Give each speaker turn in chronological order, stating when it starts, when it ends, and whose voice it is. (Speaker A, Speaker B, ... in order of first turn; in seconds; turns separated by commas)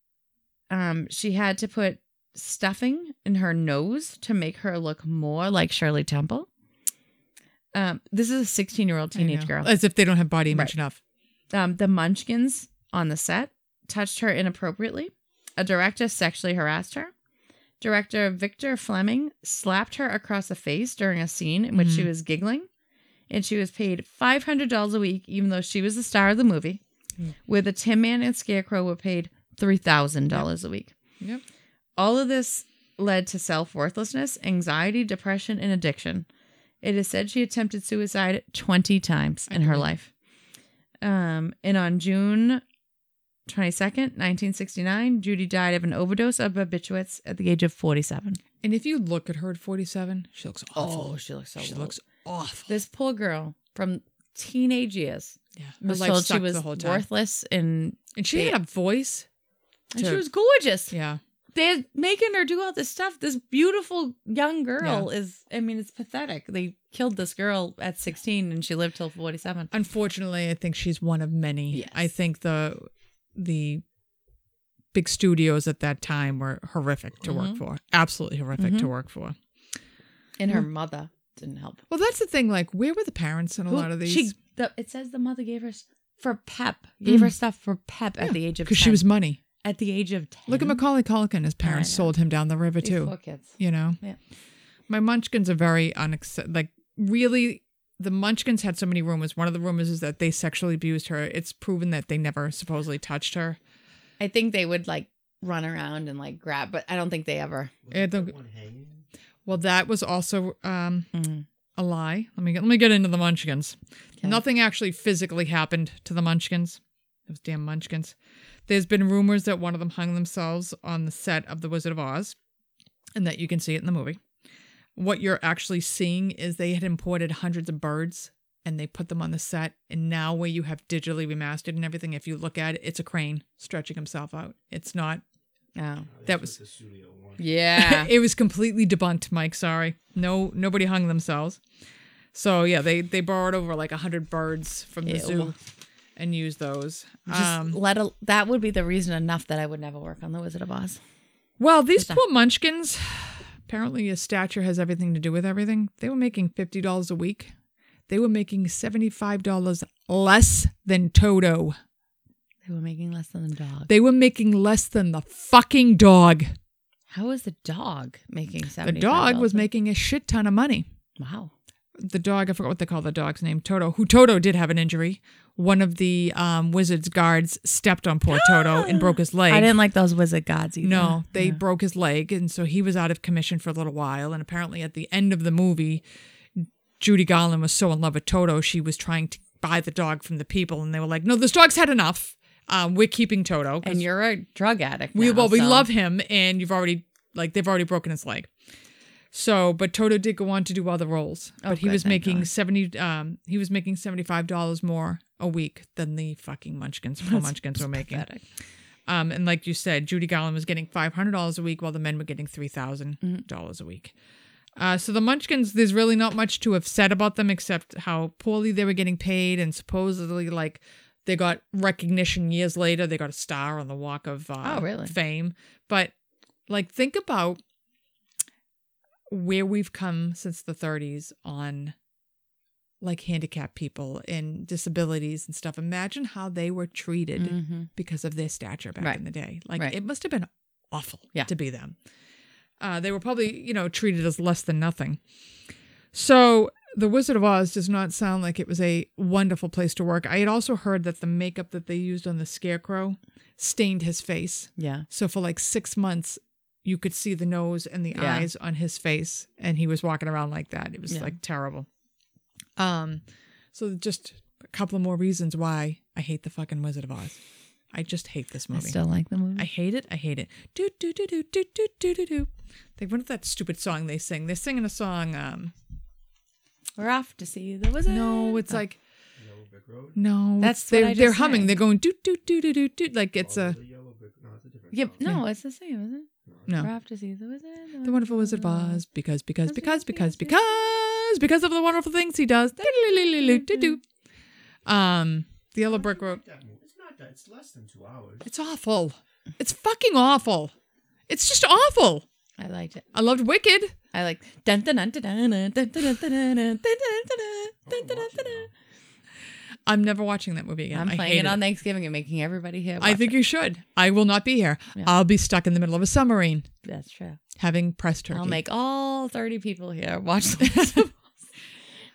Speaker A: 0.7-6.5, Speaker A: 7.7-9.7, Speaker B: 9.2-11.0, Speaker A: 10.5-10.8, Speaker A: 11.5-17.1, Speaker A: 17.8-22.7, Speaker B: 21.8-22.1, Speaker A: 23.3-26.8, Speaker A: 27.5-30.9, Speaker A: 32.0-36.3, Speaker A: 36.8-40.1, Speaker B: 39.5-39.9, Speaker A: 41.0-42.6, Speaker A: 43.5-48.4, Speaker B: 48.6-52.7, Speaker A: 50.8-52.0, Speaker A: 52.7-58.6, Speaker B: 55.6-57.1, Speaker B: 58.2-59.3, Speaker A: 59.9-60.9, Speaker B: 60.0-60.2, Speaker B: 60.9-61.2, Speaker A: 61.5-69.7, Speaker B: 64.8-65.1, Speaker B: 69.7-73.8, Speaker A: 71.7-72.1, Speaker B: 74.9-79.4, Speaker A: 77.2-77.6, Speaker A: 78.6-78.9, Speaker A: 80.4-81.8, Speaker B: 81.9-84.3, Speaker A: 83.7-89.0, Speaker B: 87.1-87.3, Speaker B: 88.2-89.4, Speaker A: 89.6-90.8, Speaker B: 90.5-94.0, Speaker A: 91.6-92.1, Speaker A: 92.8-94.2, Speaker B: 94.9-103.6, Speaker A: 104.2-107.7, Speaker C: 107.8-109.1, Speaker B: 107.9-108.3, Speaker B: 109.5-111.1, Speaker A: 111.1-111.5, Speaker B: 111.8-118.2, Speaker B: 118.7-122.4, Speaker B: 123.2-124.2, Speaker B: 125.0-135.2, Speaker A: 135.8-136.1, Speaker C: 136.1-137.5, Speaker B: 136.3-136.6, Speaker A: 137.4-138.1, Speaker B: 137.8-141.6, Speaker B: 142.3-145.6, Speaker A: 145.0-145.6, Speaker B: 146.2-147.8, Speaker A: 147.3-151.0, Speaker B: 151.6-157.5, Speaker B: 158.1-161.8, Speaker A: 162.7-163.9, Speaker B: 163.9-166.6, Speaker A: 167.1-169.7, Speaker B: 168.8-170.8, Speaker A: 171.2-171.5, Speaker B: 172.0-179.7, Speaker A: 178.3-181.6, Speaker B: 180.8-186.0, Speaker B: 186.6-194.1, Speaker A: 193.8-195.9, Speaker B: 195.1-198.5, Speaker B: 199.3-208.2, Speaker A: 201.6-202.5, Speaker A: 207.2-208.4, Speaker B: 209.1-214.1, Speaker B: 214.8-226.1, Speaker A: 224.6-225.1, Speaker B: 226.7-227.6, Speaker B: 229.3-231.9, Speaker B: 233.0-242.0, Speaker A: 237.4-237.9, Speaker B: 242.8-245.2, Speaker B: 246.1-261.9, Speaker A: 254.8-255.1, Speaker A: 258.1-258.5, Speaker A: 261.1-261.3, Speaker B: 262.8-263.2, Speaker B: 263.7-267.4, Speaker B: 267.9-269.0, Speaker A: 268.7-269.7, Speaker B: 269.6-275.7, Speaker A: 277.0-278.8, Speaker B: 278.1-279.0, Speaker C: 279.4-280.2, Speaker B: 280.2-283.8, Speaker A: 280.6-281.8, Speaker C: 283.4-285.4, Speaker A: 284.9-289.0, Speaker C: 286.4-286.9, Speaker B: 288.0-294.0, Speaker A: 289.7-290.8, Speaker A: 292.8-294.0, Speaker B: 294.9-296.4, Speaker C: 295.8-298.5, Speaker B: 298.4-300.7, Speaker B: 301.3-302.2, Speaker A: 302.6-303.0, Speaker B: 303.1-303.9, Speaker A: 304.1-308.7, Speaker C: 307.9-308.7, Speaker B: 309.9-311.6, Speaker A: 310.9-313.4, Speaker B: 313.0-316.7, Speaker A: 316.8-317.4, Speaker B: 317.6-318.6, Speaker A: 318.3-321.1, Speaker B: 320.6-321.1